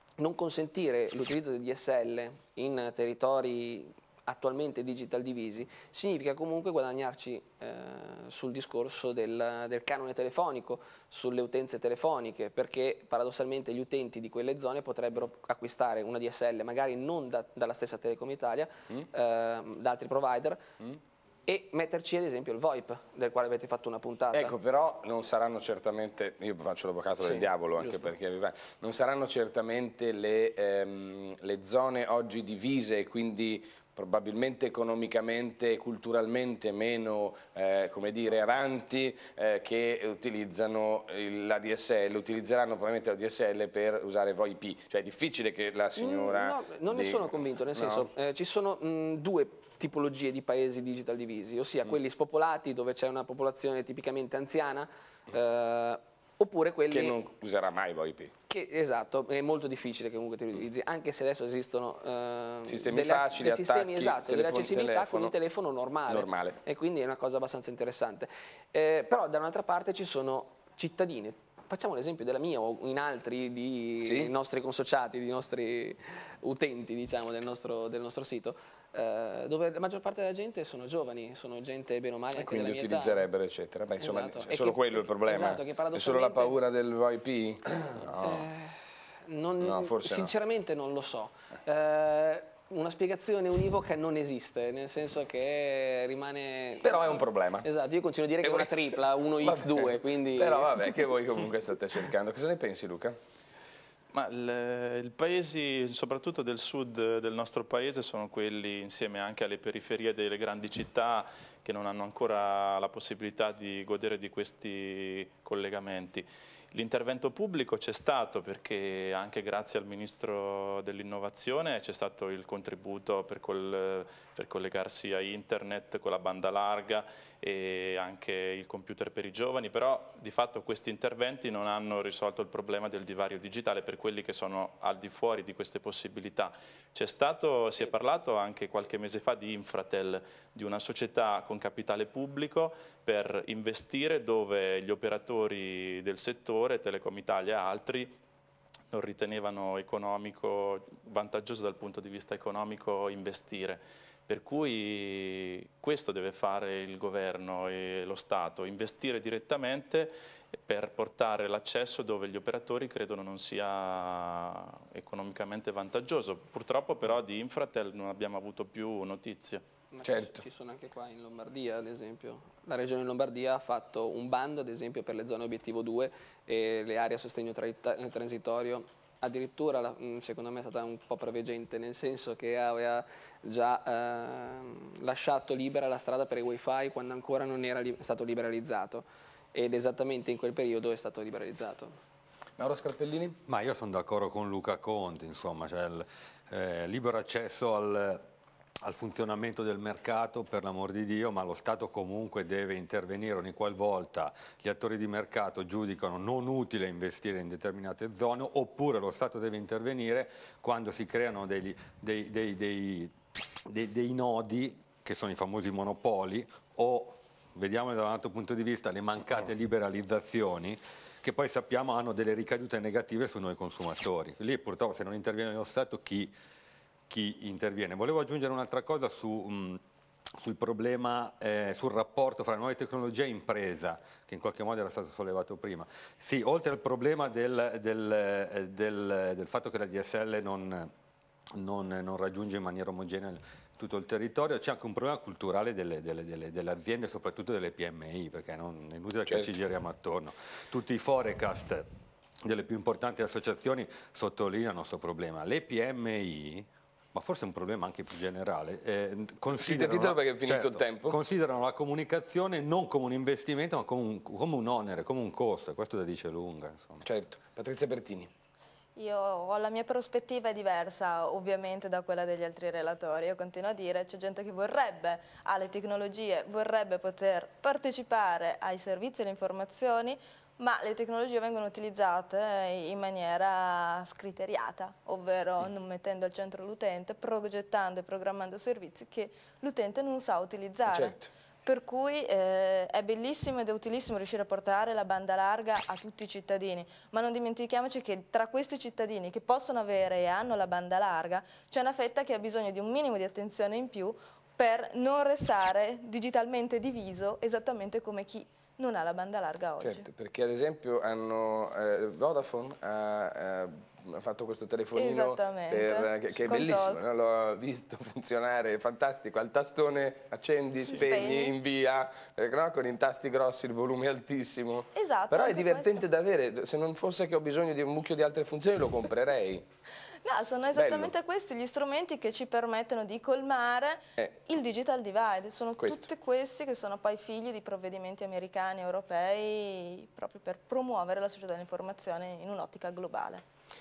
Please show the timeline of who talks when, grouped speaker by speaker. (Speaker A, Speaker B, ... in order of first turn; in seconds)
Speaker A: 0.2-20.6, 21.5-24.6, 27.2-28.1, 46.0-57.2, 58.5-83.3, 84.0-86.6, 88.2-100.9, 169.9-191.9
Speaker B: 24.3-48.1, 56.9-58.3, 62.7-65.3, 66.1-66.6, 74.0-74.3, 82.3-88.5, 89.6-90.3, 96.8-97.7, 98.4-103.2, 170.0-170.4, 192.6-193.4, 249.3-249.5, 259.5-261.2, 267.0-268.3, 290.9-291.3, 309.8-329.6, 330.7-331.1, 335.8-336.0
Speaker C: 104.1-148.2, 148.9-169.7
Speaker D: 193.5-198.3, 198.8-213.1, 213.7-226.3, 227.1-229.8, 230.4-240.9, 241.5-251.9, 252.4-267.0
Speaker E: 269.0-310.1, 314.9-317.0, 320.9-321.6, 325.0-326.1, 330.2-343.4